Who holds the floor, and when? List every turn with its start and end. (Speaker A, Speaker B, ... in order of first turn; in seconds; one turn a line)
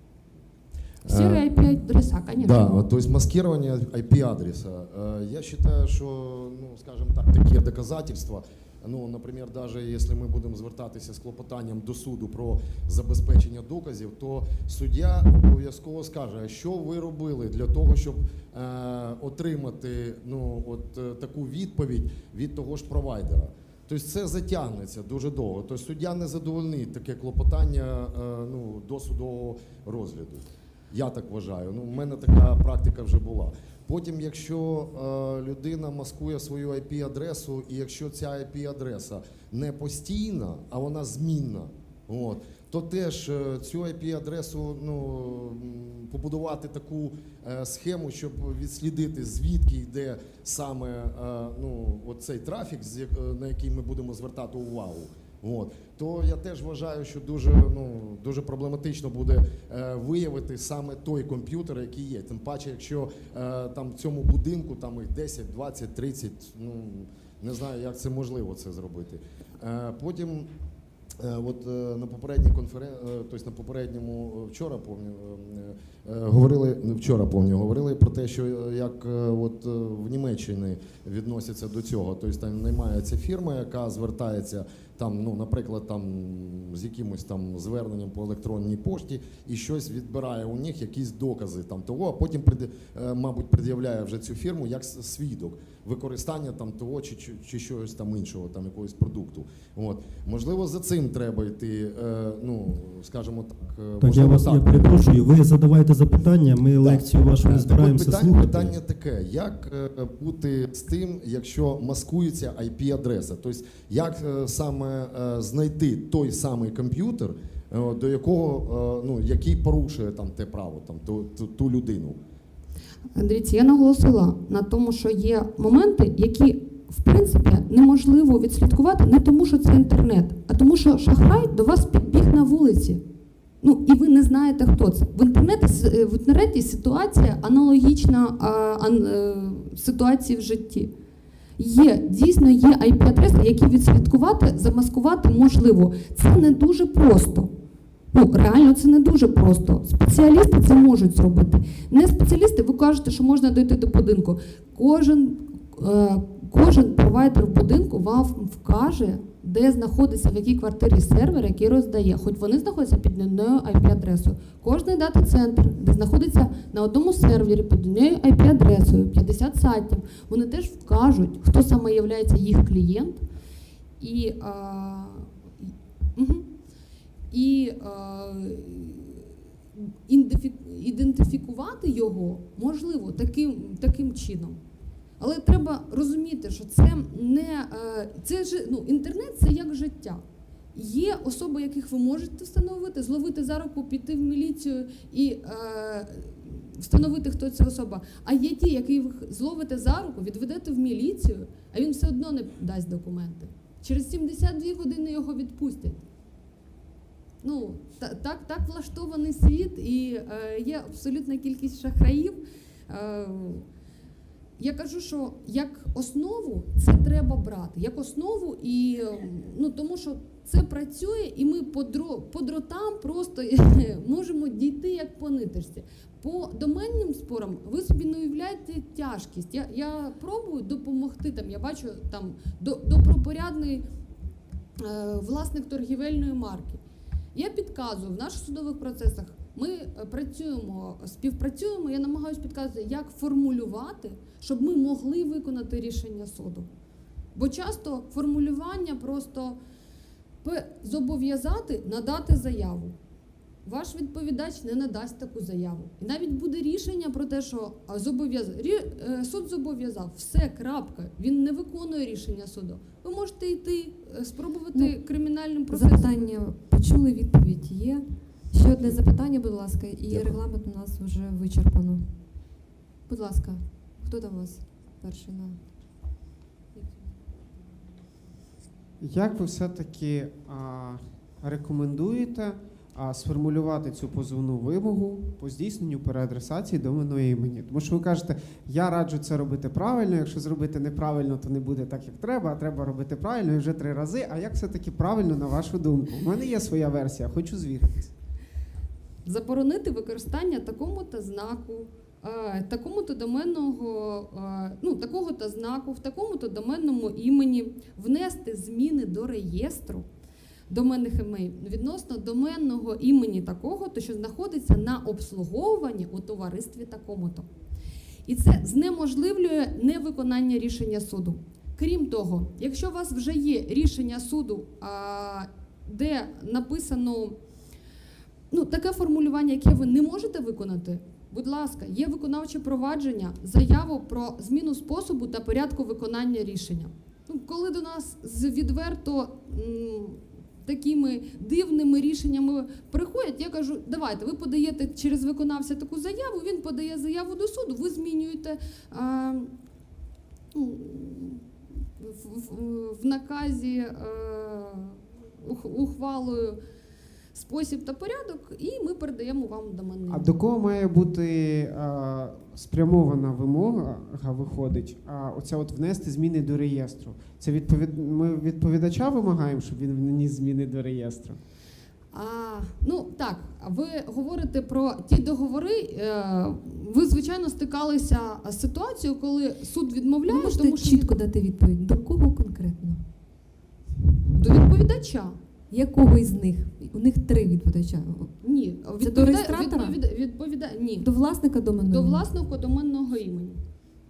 Speaker A: 1.0-2.8
Speaker B: 1.1-1.4
Speaker B: 2.4-70.5
Speaker B: 71.2-105.2
Speaker C: 104.0-108.8
Speaker B: 106.8-122.2
Speaker A: 123.2-133.0
Speaker A: 133.6-140.9
Speaker A: 141.6-147.5
Speaker A: 148.1-173.2
Speaker A: 174.0-175.3
Speaker A: 176.2-176.5
Speaker A: 177.3-184.6
Speaker A: 185.2-190.2
Speaker A: 190.8-206.0
Speaker A: 207.4-213.7
Speaker A: 214.6-233.8
Speaker A: 234.8-236.8
Speaker A: 237.3-246.7
Speaker A: 247.3-249.6
Speaker A: 250.4-252.9
Speaker A: 253.7-266.3
Speaker D: 265.7-272.1
Speaker B: 270.1-270.4
Speaker D: 273.1-275.6
Speaker E: 279.0-298.1
Speaker A: 299.2-310.1
Speaker A: 310.7-317.5
Speaker A: 318.3-327.4
Speaker A: 328.5-349.5
Speaker A: 350.5-351.4
Speaker A: 352.0-356.6
Speaker A: 357.3-360.4
Speaker E: 360.1-371.4
Speaker A: 372.1-381.2
Speaker D: 380.3-383.0
Speaker A: 384.3-385.4
Speaker D: 385.7-388.3
Speaker A: 388.4-391.1
Speaker D: 389.0-390.0
Speaker D: 391.0-392.3
Speaker A: 391.9-393.6